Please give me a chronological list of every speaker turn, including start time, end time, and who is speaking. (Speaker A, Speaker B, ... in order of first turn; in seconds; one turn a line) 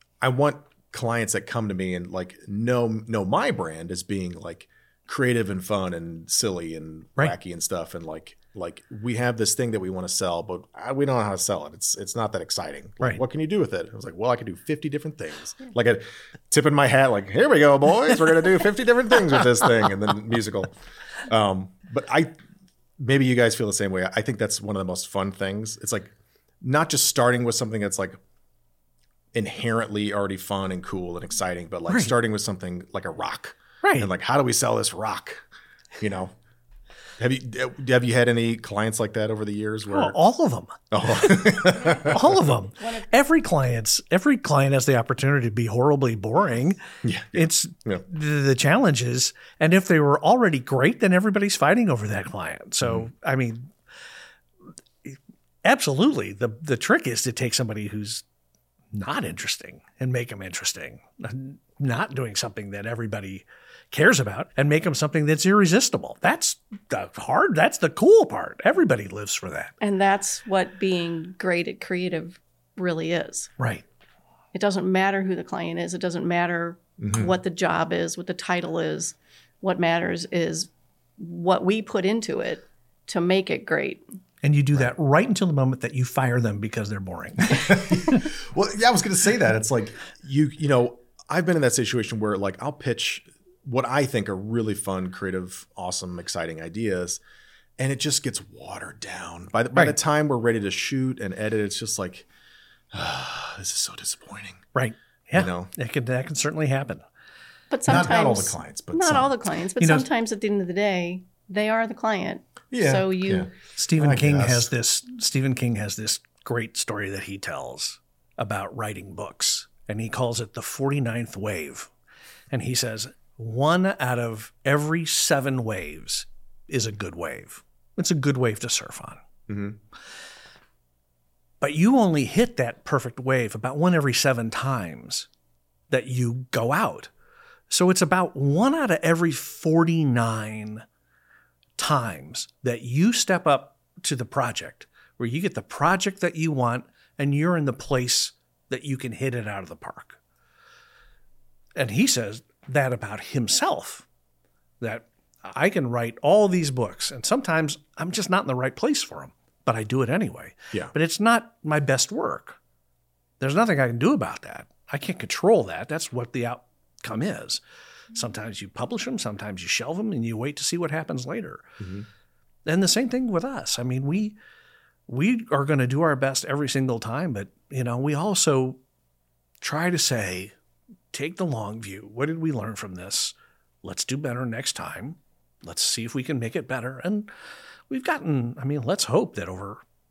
Speaker A: 0.2-22.3
Speaker A: 23.0-28.2
Speaker A: 29.3-35.4
Speaker B: 33.8-34.1
Speaker A: 36.0-36.3
Speaker A: 37.2-40.2
Speaker B: 39.9-46.8
Speaker A: 40.9-42.4
Speaker C: 42.8-43.1
Speaker A: 47.0-48.0
Speaker B: 47.3-53.7
Speaker A: 52.8-53.1
Speaker B: 55.0-58.2
Speaker B: 58.9-69.7
Speaker C: 69.8-73.5
Speaker B: 73.6-73.8
Speaker C: 74.5-84.0
Speaker A: 77.0-77.3
Speaker B: 84.4-88.2
Speaker A: 87.6-97.2
Speaker A: 97.8-102.3
Speaker A: 102.9-104.7
Speaker B: 104.8-107.0
Speaker A: 105.3-105.7
Speaker C: 107.7-113.5
Speaker A: 107.9-109.3
Speaker B: 109.8-110.1
Speaker A: 112.7-114.7
Speaker B: 113.8-121.9
Speaker B: 122.5-129.2
Speaker A: 129.5-129.8
Speaker B: 131.6-135.3
Speaker B: 135.9-137.1
Speaker B: 137.7-140.9
Speaker B: 141.8-150.2
Speaker B: 151.8-154.1
Speaker B: 154.8-162.6
Speaker B: 163.4-167.6
Speaker B: 168.1-171.6
Speaker A: 171.8-172.1
Speaker B: 172.7-174.3
Speaker B: 175.1-178.8
Speaker B: 179.6-180.6
Speaker B: 181.1-187.3
Speaker B: 187.9-189.8